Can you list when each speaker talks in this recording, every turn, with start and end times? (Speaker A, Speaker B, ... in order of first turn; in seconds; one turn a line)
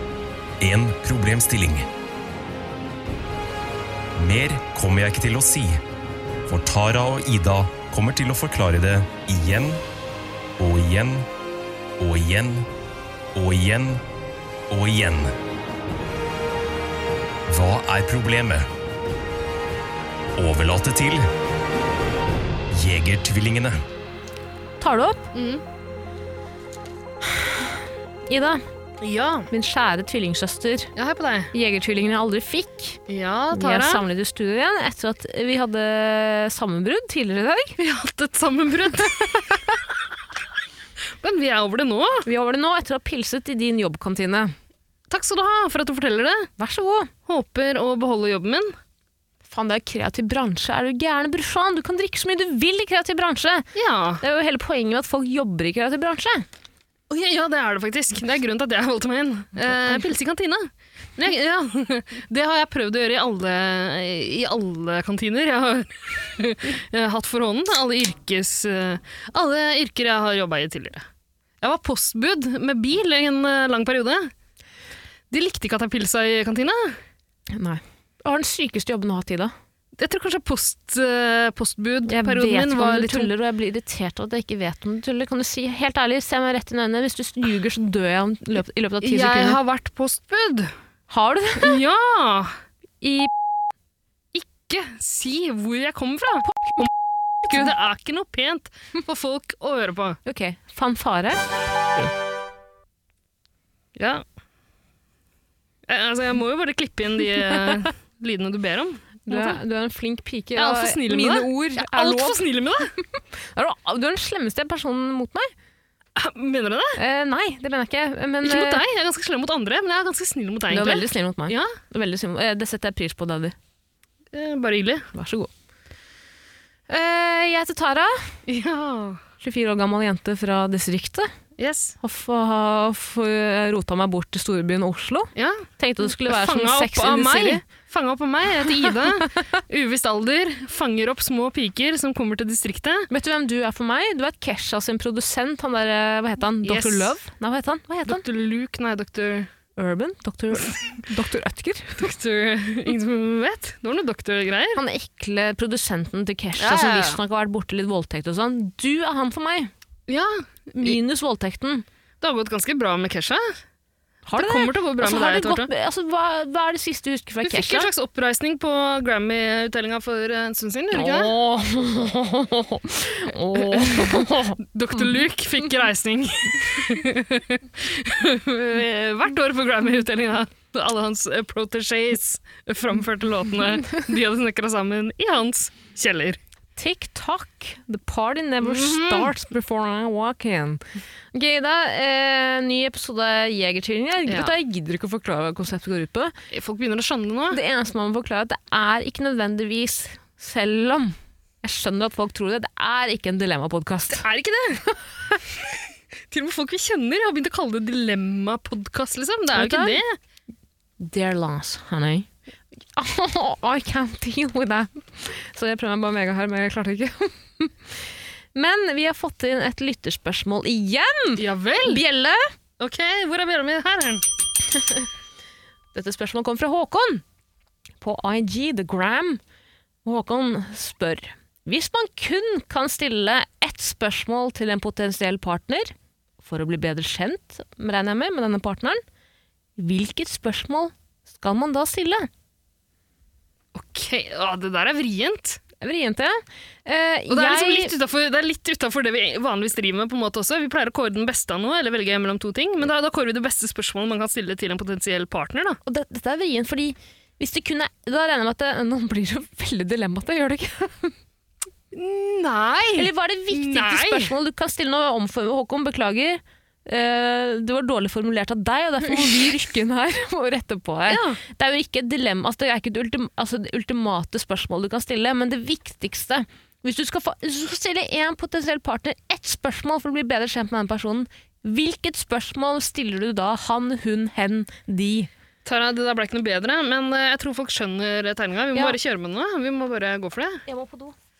Speaker A: 0.6-1.9
Speaker A: 4.2-5.8
Speaker A: 6.5-9.8
Speaker A: 10.6-11.3
Speaker A: 12.0-12.7
Speaker A: 13.3-14.0
Speaker A: 14.7-15.3
Speaker A: 17.5-18.7
Speaker A: 20.4-21.3
Speaker A: 22.7-23.8
Speaker B: 24.8-25.3
Speaker C: 25.3-25.6
Speaker B: 27.3-27.7
Speaker B: 28.2-28.6
Speaker C: 29.0-29.5
Speaker B: 29.5-30.9
Speaker C: 30.9-31.5
Speaker B: 31.5-33.0
Speaker C: 33.1-34.0
Speaker B: 33.5-37.8
Speaker C: 37.8-39.8
Speaker C: 41.2-42.3
Speaker B: 42.2-44.5
Speaker C: 45.1-46.5
Speaker B: 46.6-47.1
Speaker C: 47.2-48.8
Speaker B: 49.5-53.7
Speaker C: 53.7-54.2
Speaker B: 54.2-56.5
Speaker C: 57.1-71.0
Speaker C: 71.6-74.3
Speaker C: 75.3-77.0
Speaker B: 77.5-79.5
Speaker C: 80.0-83.3
Speaker B: 82.1-89.6
Speaker C: 89.0-90.7
Speaker B: 91.1-91.8
Speaker C: 91.6-92.5
Speaker B: 93.0-93.3
Speaker C: 94.3-96.9
Speaker B: 96.5-96.9
Speaker B: 97.5-97.7
Speaker C: 97.5-100.2
Speaker B: 100.2-101.4
Speaker C: 104.0-104.2
Speaker C: 105.9-109.6
Speaker B: 109.3-112.4
Speaker C: 110.5-112.9
Speaker B: 113.3-115.5
Speaker C: 116.2-117.0
Speaker B: 117.0-118.8
Speaker C: 118.4-121.7
Speaker B: 120.7-123.5
Speaker C: 124.3-125.1
Speaker B: 125.1-125.5
Speaker B: 126.9-128.3
Speaker C: 128.4-129.2
Speaker B: 129.4-131.3
Speaker C: 131.6-131.9
Speaker B: 132.0-137.6
Speaker C: 135.3-143.1
Speaker B: 143.1-148.2
Speaker C: 146.6-147.2
Speaker C: 148.1-149.5
Speaker B: 149.8-152.1
Speaker C: 152.0-154.8
Speaker B: 154.7-159.7
Speaker C: 156.6-157.2
Speaker C: 160.1-161.0
Speaker B: 160.8-161.8
Speaker C: 162.2-163.5
Speaker B: 164.2-167.9
Speaker C: 164.4-165.7
Speaker C: 167.4-171.3
Speaker B: 170.9-175.2
Speaker C: 173.5-186.4
Speaker B: 186.8-196.3
Speaker C: 188.6-189.3
Speaker C: 194.3-194.5
Speaker C: 196.5-197.6
Speaker B: 197.5-204.2
Speaker C: 204.1-204.8
Speaker C: 206.3-210.2
Speaker B: 209.5-210.0
Speaker B: 211.0-212.3
Speaker B: 212.9-218.0
Speaker B: 218.5-222.5
Speaker C: 221.4-222.0
Speaker C: 222.8-224.2
Speaker B: 224.7-225.1
Speaker B: 225.9-227.2
Speaker B: 228.0-229.4
Speaker B: 230.0-239.0
Speaker B: 239.8-242.3
Speaker C: 243.7-245.6
Speaker B: 245.8-247.9
Speaker C: 247.3-255.8
Speaker B: 255.8-261.1
Speaker C: 261.9-264.3
Speaker B: 262.9-285.3
Speaker C: 269.1-269.5
Speaker C: 271.1-271.4
Speaker C: 285.6-290.6
Speaker B: 290.7-291.1